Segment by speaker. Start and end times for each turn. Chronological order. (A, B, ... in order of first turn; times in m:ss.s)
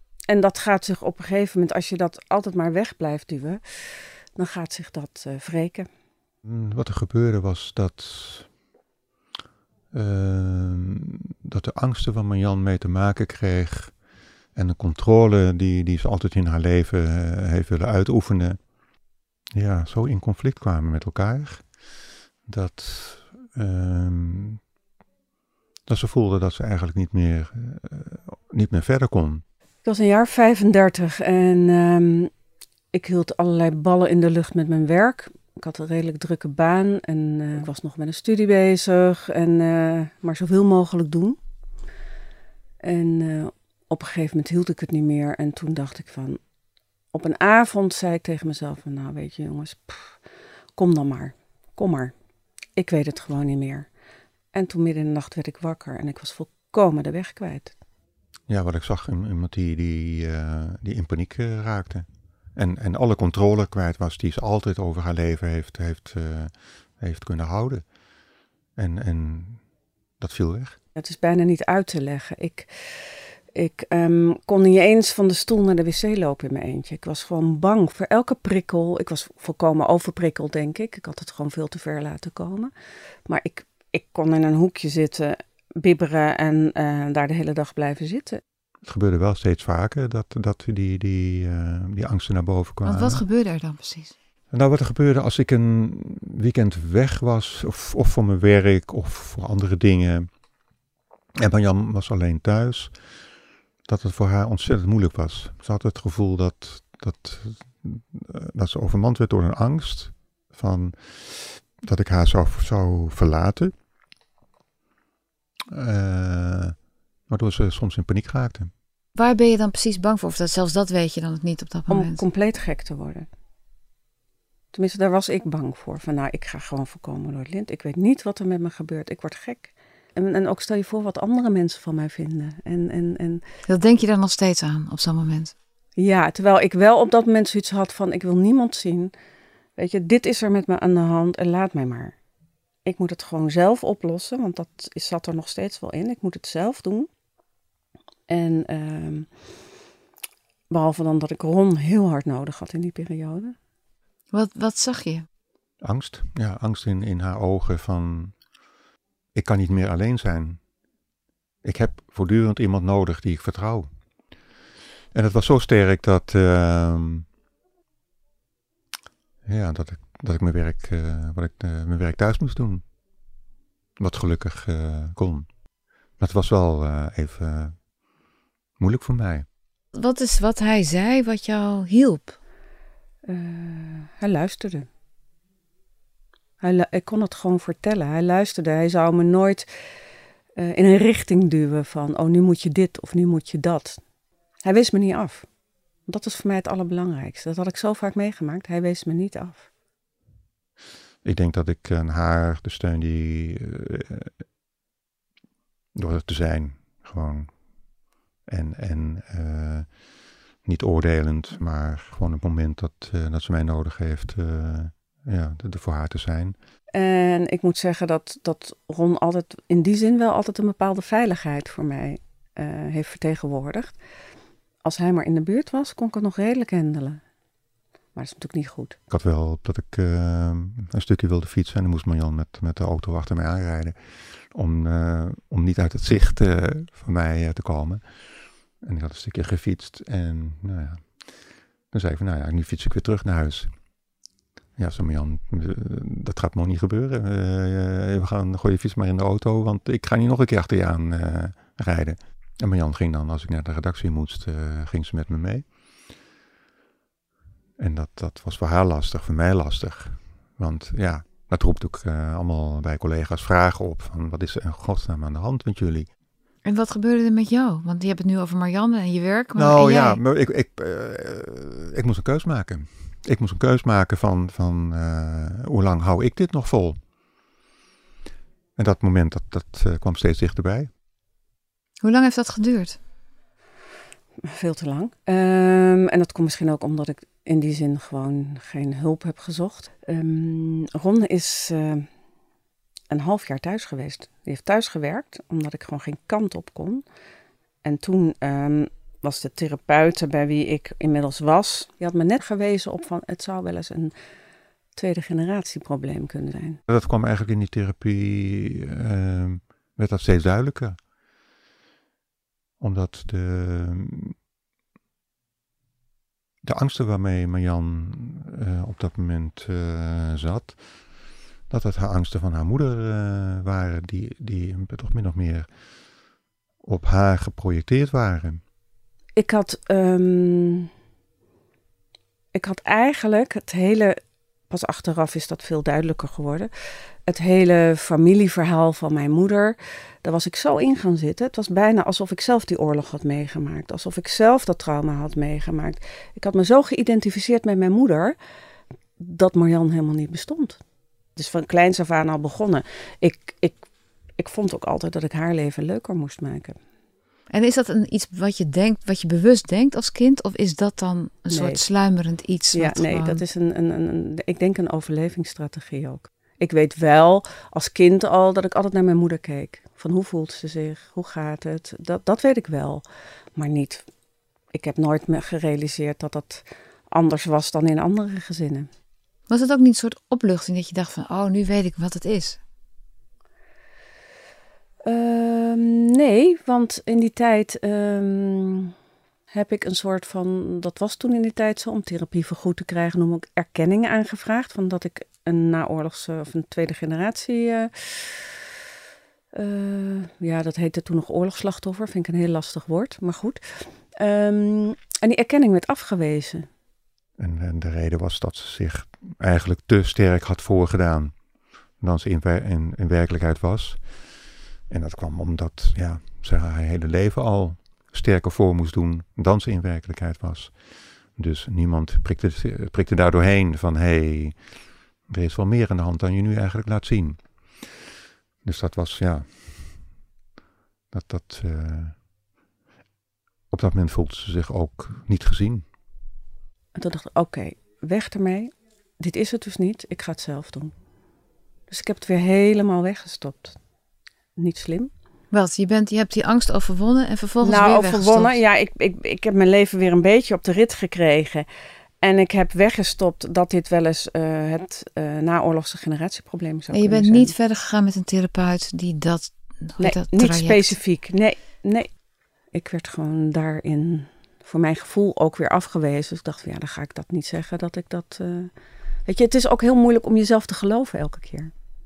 0:00.3-0:05.9 A
0:06.4-0:08.5 B
0:09.9-0:14.0 B
0:14.5-0:18.6 B
0:19.5-0:21.6 B
0:22.5-0:24.6 B
0:25.9-0:29.4 B
0:29.8-0:32.3 A
0:32.9-0:41.4 A
0:42.8-0:46.4 A
0:47.1-0:50.2 A
0:50.8-0:52.1 A
0:52.8-0:53.9 A
0:54.5-0:57.7 A
0:58.5-1:07.8 B
1:08.8-1:09.6 B
1:10.2-1:10.8 B
1:11.0-1:12.7 A
1:13.5-1:22.7 A
1:23.3-1:28.4 A
1:28.8-1:33.2 B
1:32.8-1:34.1 C
1:34.5-1:40.3 B
1:41.4-1:43.0 B
1:43.8-1:53.7 B
1:55.7-1:56.8 B
1:57.3-1:58.7 B
1:59.1-2:02.2 C
2:01.9-2:03.3 A
2:04.7-2:13.4 A
2:13.6-2:15.5 C
2:16.0-2:19.1 A
2:19.8-2:22.1 A
2:22.8-2:27.1 A
2:28.3-2:29.3 A
2:30.7-2:33.5 A
2:34.3-2:35.2 C
2:35.8-2:38.3 B
2:39.3-2:40.6 B
2:41.6-2:43.9 B
2:45.1-2:47.2 B
2:49.4-2:52.8 B
2:54.0-2:55.5 B
2:56.2-2:57.8 B
2:58.8-2:59.4 B
2:59.9-3:02.4 C
3:03.2-3:04.8 A
3:06.6-3:09.6 A
3:10.6-3:14.0 A
3:14.6-3:15.5 A
3:16.1-3:19.7 A
3:21.2-3:24.3 B
3:25.9-3:27.5 B
3:28.5-3:29.9 B
3:30.6-3:36.6 B
3:36.9-3:44.0 A
3:44.8-3:47.2 A
3:48.1-3:49.0 A
3:49.1-3:58.0 B
3:58.8-4:03.7 B
4:04.8-4:15.6 B
4:17.8-4:26.1 B
4:26.6-4:30.2 C
4:29.6-4:37.0 B
4:38.8-4:40.9 B
4:42.0-4:43.0 C
4:44.5-4:52.0 A
4:53.1-4:57.0 A
4:57.8-5:04.1 A
5:05.0-5:06.8 A
5:06.9-5:11.0 B
5:12.8-5:14.3 B
5:16.6-5:20.8 B
5:21.7-5:25.7 B
5:26.8-5:28.6 B
5:29.4-5:30.9 A
5:32.5-5:34.1 A
5:34.7-5:36.7 A
5:37.3-5:48.4 A
5:49.2-5:50.8 A
5:51.4-5:53.8 A
5:54.4-5:56.8 A
5:57.5-6:03.4 C
6:01.5-6:01.8 A
6:02.7-6:14.0 A
6:14.7-6:18.9 A
6:19.5-6:22.6 C
6:25.0-6:28.9 A
6:29.5-6:38.6 A
6:39.5-6:46.7 A
6:47.4-6:51.3 B
6:52.0-6:54.1 B
6:54.9-7:00.8 B
7:01.3-7:04.7 B
7:05.3-7:07.4 B
7:08.6-7:10.0 B
7:11.1-7:12.2 B
7:13.7-7:15.8 B
7:16.9-7:20.9 A
7:21.9-7:23.8 A
7:24.6-7:25.1 A
7:25.5-7:28.6 C
7:27.6-7:31.7 A
7:32.2-7:37.5 A
7:36.9-7:41.0 C
7:40.0-7:42.1 A
7:42.7-7:48.7 A
7:49.2-7:51.7 A